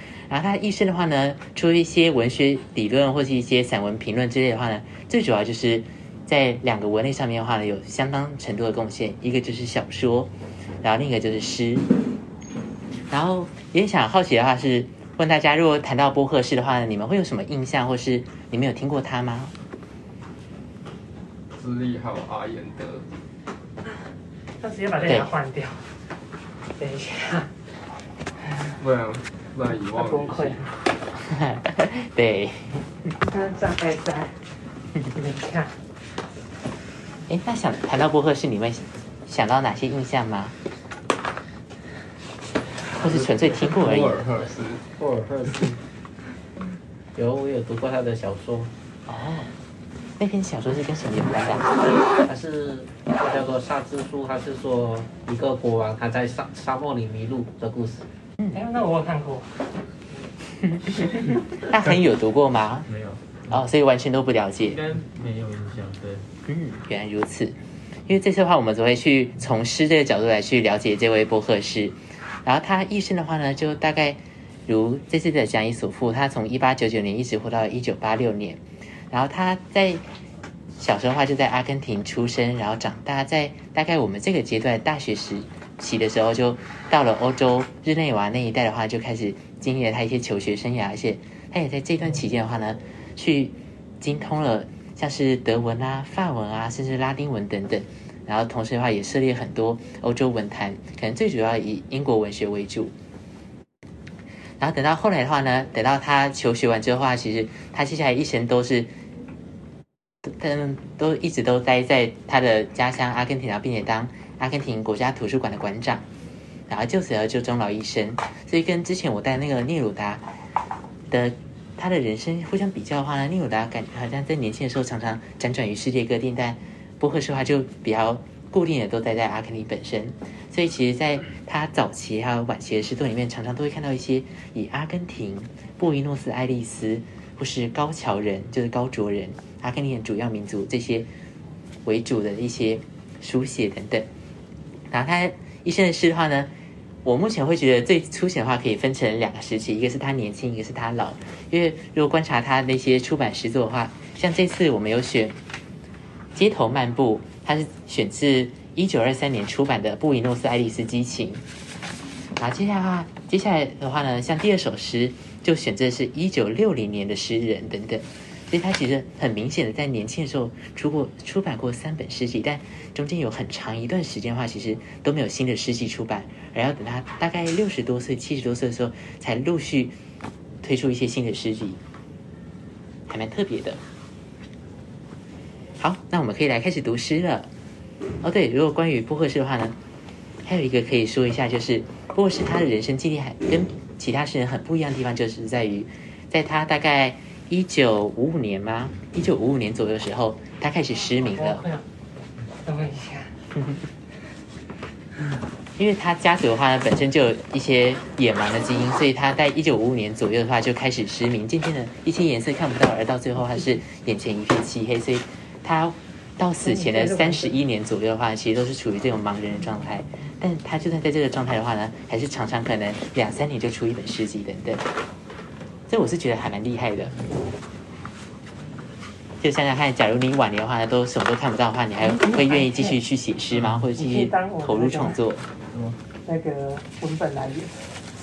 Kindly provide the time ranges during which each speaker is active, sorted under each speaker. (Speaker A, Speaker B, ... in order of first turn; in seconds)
Speaker A: 0.3-11.8, 13.1-19.5, 25.0-25.3, 31.1-33.1, 37.3-40.5, 42.9-44.2, 49.0-49.5, 50.2-51.7, 60.6-62.9, 63.5-64.8, 66.5-80.0, 80.8-102.9, 104.6-108.9, 110.2-116.0, 116.7-120.2, 121.1-141.1, 141.8-144.1, 144.9-146.5, 147.0-155.3, 156.3-161.4, 162.4-180.0, 180.6-181.8, 183.1-183.8, 185.8-187.5, 188.2-189.8, 190.4-201.7, 205.8-224.8, 225.9-227.2, 229.4-235.4
Speaker B: 21.5-23.1, 28.8-30.7, 43.5-44.9
Speaker C: 24.6-25.9, 26.8-27.5, 29.9-30.7, 33.2-34.5, 35.0-35.8, 58.5-59.5, 201.1-201.8, 202.6-203.4, 216.6-217.5, 232.0-233.0, 233.9-235.2, 236.2-237.8
Speaker D: 43.0-44.4, 45.0-45.8, 47.1-48.7, 52.2-58.0
Speaker E: 62.9-63.6, 64.6-66.3, 233.5-234.1, 235.6-236.0